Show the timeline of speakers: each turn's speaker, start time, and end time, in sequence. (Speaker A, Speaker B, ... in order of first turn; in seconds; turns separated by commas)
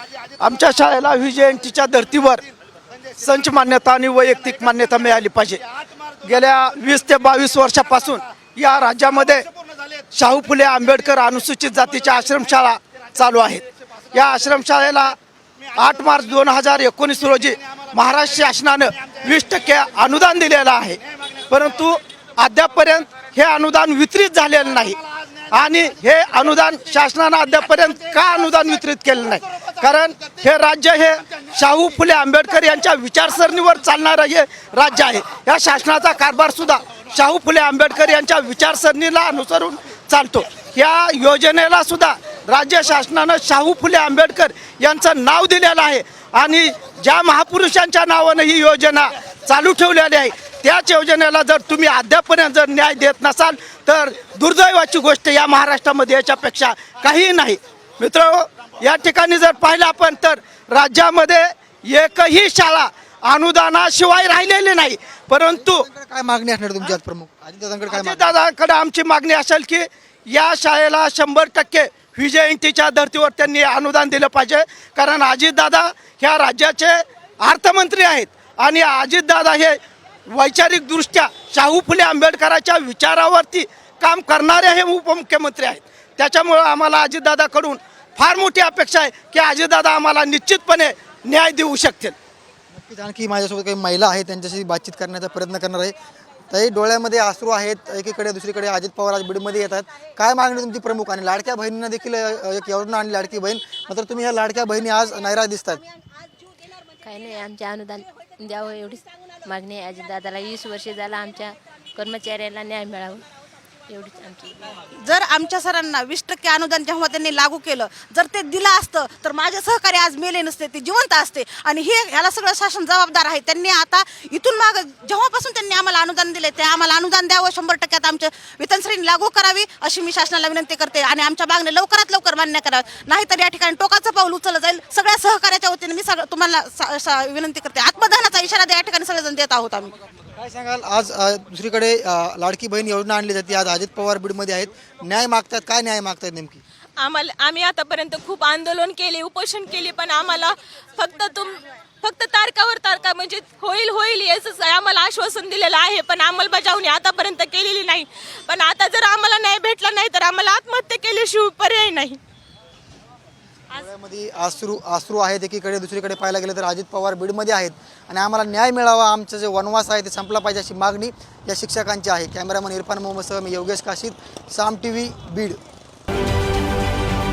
Speaker A: 0.4-2.4, Speaker A: 3.2-5.6, Speaker A: 6.2-9.4, Speaker A: 10.1-15.1, Speaker A: 15.8-25.0, Speaker A: 25.5-65.8, Speaker B: 65.5-68.3, Speaker A: 67.9-79.8, Speaker A: 80.3-92.1, Speaker B: 92.7-96.0, Speaker B: 96.5-105.8, Speaker C: 107.0-113.2, Speaker C: 113.9-114.7, Speaker D: 115.0-139.9, Speaker B: 140.4-146.6, Speaker E: 147.0-162.2, Speaker B: 163.7-175.6